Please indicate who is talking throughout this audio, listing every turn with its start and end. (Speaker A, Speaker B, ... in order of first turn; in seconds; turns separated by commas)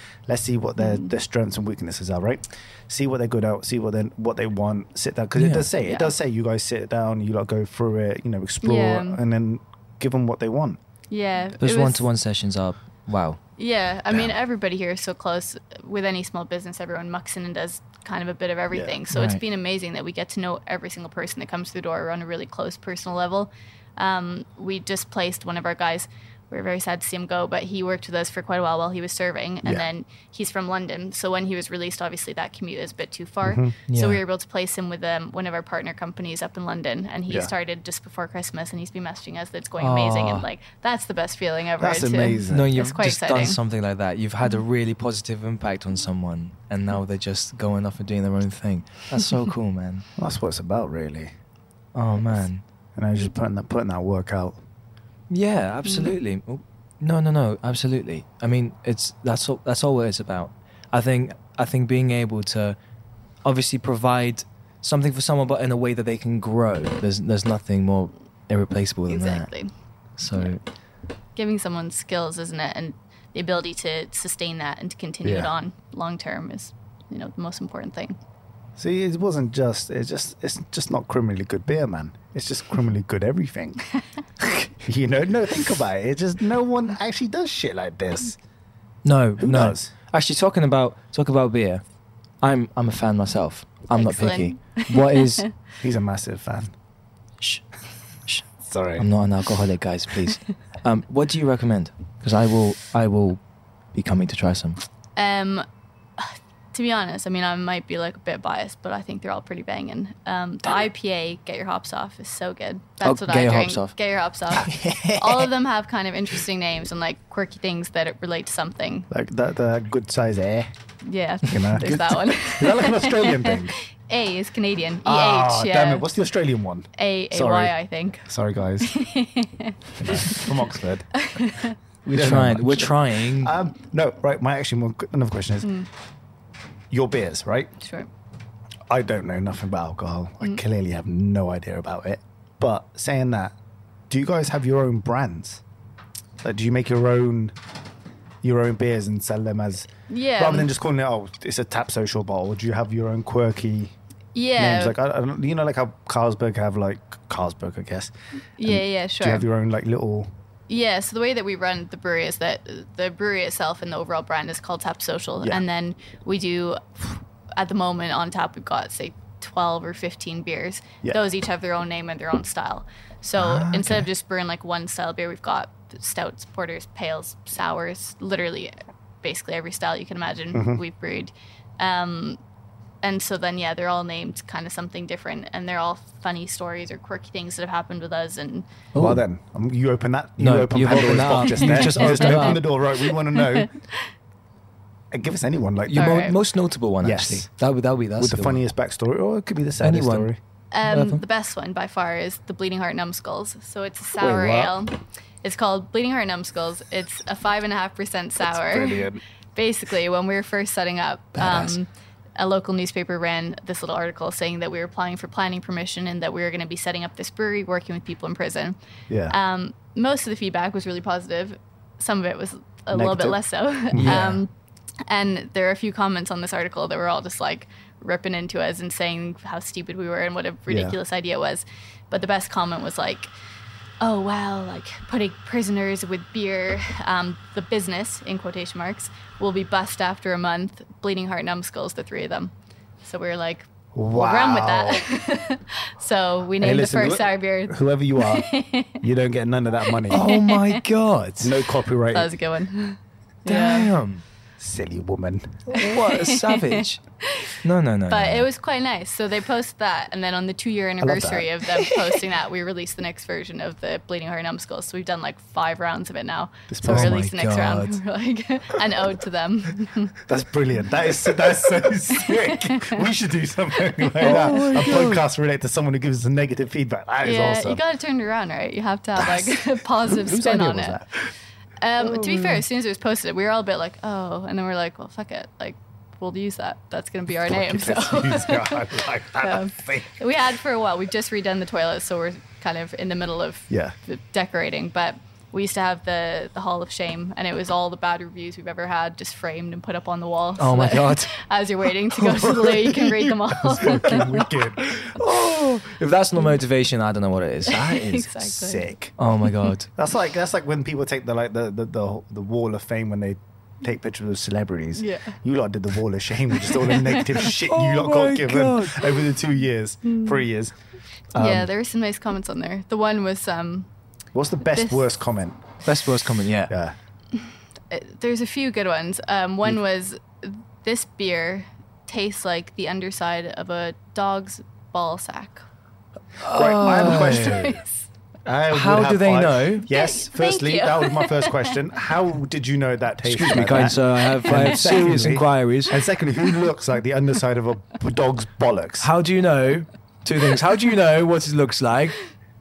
Speaker A: 0.3-10.8, Speaker B: 0.8-1.1, Speaker C: 5.3-5.7, Speaker B: 5.8-6.1, Speaker B: 8.6-9.2, Speaker B: 11.1-12.1, Speaker C: 11.6-13.4, Speaker B: 13.6-43.6, Speaker A: 18.7-19.0, Speaker C: 19.1-19.4, Speaker A: 33.5-33.7, Speaker C: 33.9-34.2, Speaker C: 39.8-40.5, Speaker A: 41.8-42.7, Speaker C: 42.5-50.1, Speaker A: 50.2-51.3, Speaker C: 51.9-52.6, Speaker A: 53.0-54.6, Speaker C: 55.3-62.8, Speaker B: 55.9-56.1, Speaker C: 63.4-69.5, Speaker B: 69.1-69.7, Speaker C: 70.2-70.6, Speaker B: 71.4-78.2, Speaker A: 75.2-75.5, Speaker A: 78.8-83.9, Speaker A: 84.5-88.4, Speaker C: 89.0-91.8, Speaker A: 89.4-89.9, Speaker C: 92.4-95.5, Speaker B: 93.9-95.5, Speaker A: 95.8-96.7, Speaker A: 98.6-99.1, Speaker C: 99.0-103.4, Speaker C: 103.9-104.8, Speaker B: 105.2-105.7, Speaker B: 106.2-119.1, Speaker C: 113.0-113.9, Speaker C: 114.5-115.5, Speaker A: 119.1-120.7, Speaker B: 121.0-126.1, Speaker A: 121.5-123.8, Speaker A: 125.0-127.7, Speaker B: 127.0-128.3, Speaker A: 128.2-128.9, Speaker B: 128.8-130.5, Speaker A: 130.0-131.2, Speaker B: 131.1-131.8, Speaker A: 132.0-135.7, Speaker C: 132.1-133.6, Speaker A: 136.9-137.7, Speaker B: 137.8-138.1, Speaker A: 138.9-143.6, Speaker A: 144.1-145.6, Speaker A: 146.4-147.6, Speaker A: 148.4-153.9, Speaker B: 150.1-150.7, Speaker B: 154.3-154.9, Speaker A: 154.6-158.1, Speaker B: 158.6-159.5, Speaker A: 158.6-160.3, Speaker B: 160.7-182.4, Speaker A: 173.4-174.1, Speaker A: 180.5-180.8, Speaker B: 183.0-188.7, Speaker C: 188.9-189.2, Speaker A: 189.0-193.7, Speaker C: 190.4-192.6, Speaker B: 191.4-193.9, Speaker A: 195.1-196.3, Speaker C: 195.9-198.6, Speaker B: 196.0-196.4, Speaker A: 197.0-197.5, Speaker A: 198.2-200.4, Speaker C: 199.8-200.3, Speaker B: 200.7-218.8, Speaker C: 200.8-201.2, Speaker A: 204.2-204.8, Speaker A: 208.5-209.2, Speaker C: 211.4-211.7, Speaker A: 219.1-219.4, Speaker B: 219.3-224.5, Speaker A: 222.9-223.4, Speaker A: 223.9-224.4, Speaker C: 224.0-224.4, Speaker B: 225.1-233.3, Speaker A: 230.7-231.0, Speaker B: 234.0-249.0, Speaker A: 243.9-245.1, Speaker A: 246.6-248.5, Speaker A: 249.0-250.3, Speaker B: 250.1-250.8, Speaker C: 250.1-251.5, Speaker A: 251.4-252.3, Speaker B: 252.1-253.9, Speaker C: 253.5-254.2, Speaker A: 254.6-255.7, Speaker C: 255.7-257.0, Speaker B: 255.8-257.6, Speaker C: 257.6-258.5, Speaker B: 258.1-270.1, Speaker A: 261.0-261.9, Speaker A: 266.7-267.2, Speaker C: 266.8-268.0, Speaker A: 270.3-277.8, Speaker B: 272.2-273.0, Speaker C: 274.2-275.2, Speaker B: 274.2-275.0, Speaker B: 277.2-281.0, Speaker A: 279.2-281.2, Speaker B: 281.8-304.5, Speaker A: 282.0-282.6, Speaker A: 287.5-290.2, Speaker A: 293.7-293.9, Speaker C: 300.6-301.3, Speaker C: 302.2-302.8, Speaker A: 303.2-304.9, Speaker C: 304.0-308.3, Speaker B: 307.7-308.9, Speaker A: 308.4-309.2, Speaker C: 309.2-309.9, Speaker A: 310.0-320.8, Speaker B: 315.0-315.4, Speaker C: 317.7-319.2, Speaker B: 320.1-320.4, Speaker A: 321.3-321.7, Speaker B: 321.4-323.9, Speaker A: 324.4-325.7, Speaker B: 324.8-325.1, Speaker C: 325.8-326.7, Speaker A: 326.7-327.0, Speaker B: 327.3-335.6, Speaker C: 336.4-337.8, Speaker A: 336.5-337.8, Speaker B: 337.1-337.9, Speaker A: 338.4-349.1, Speaker C: 338.7-339.9, Speaker B: 339.9-341.8, Speaker C: 343.2-346.0, Speaker C: 349.0-352.2